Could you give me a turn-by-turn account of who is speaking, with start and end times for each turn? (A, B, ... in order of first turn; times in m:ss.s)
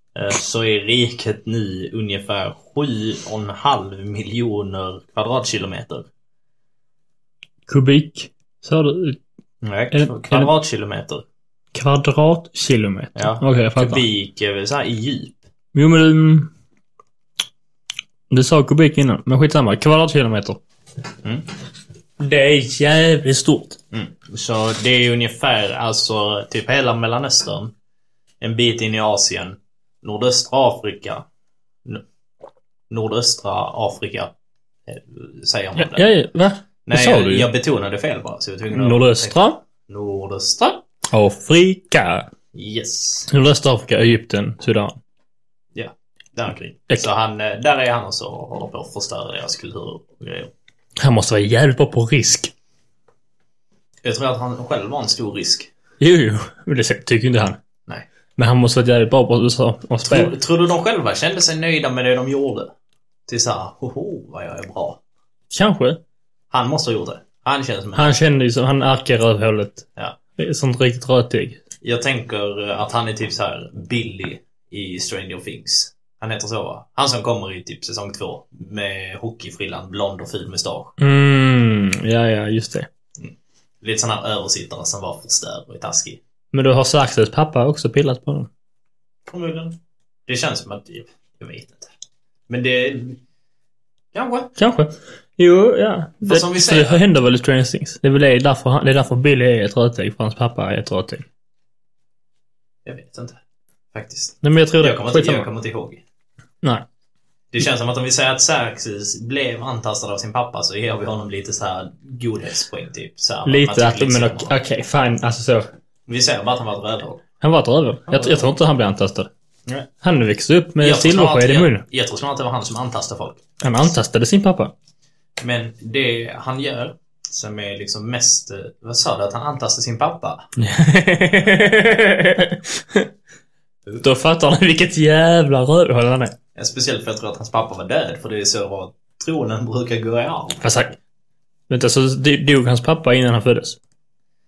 0:00.1-0:06.1 A
0:07.7-0:09.2 B
0:09.6-0:11.2 A
0:09.9-0:10.5 B
0:11.7-0:14.0 B
0:13.1-0:15.4 A
0:15.7-0:16.5 B
0:18.3-0:20.6 B
0:22.2-0:23.8 B
0:23.9-0:27.7 A
0:28.4-0:31.2 A
0:32.9-0:34.3 A
0:34.9-0:36.1 A
0:35.8-0:37.5 B
0:36.8-0:40.8 A
0:38.7-0:39.6 B
0:41.1-0:42.3 B
0:42.5-0:43.3 A
0:43.3-0:44.9 B
0:45.7-0:50.5 A
0:51.0-0:52.5 B
0:54.0-0:55.7 A
0:56.0-0:57.6 B
0:58.4-1:00.3 B
1:00.0-1:02.7 A
1:03.3-1:05.0 A
1:05.5-1:06.0 B
1:06.5-1:08.2 A
1:07.9-1:11.6 B
1:11.8-1:20.9 A
1:21.0-1:22.9 B
1:23.2-1:26.2 A
1:26.5-1:28.5 B
1:29.3-1:31.9 A
1:32.5-1:33.2 A
1:34.1-1:34.5 A
1:34.6-1:41.2 B
1:36.2-1:37.0 A
1:42.8-1:43.4 A
1:43.9-1:46.0 A
1:44.4-1:45.5 B
1:47.5-1:54.5 A
1:53.4-1:55.7 B
1:56.1-1:57.2 A
1:57.4-1:59.3 B
1:58.1-1:58.5 A
2:00.0-2:01.8 B
2:00.8-2:03.5 A
2:03.6-2:04.7 B
2:05.4-2:10.5 A
2:10.6-2:13.1 B
2:14.0-2:16.3 B
2:16.5-2:20.6 A
2:20.6-2:21.0 B
2:21.7-2:23.8 B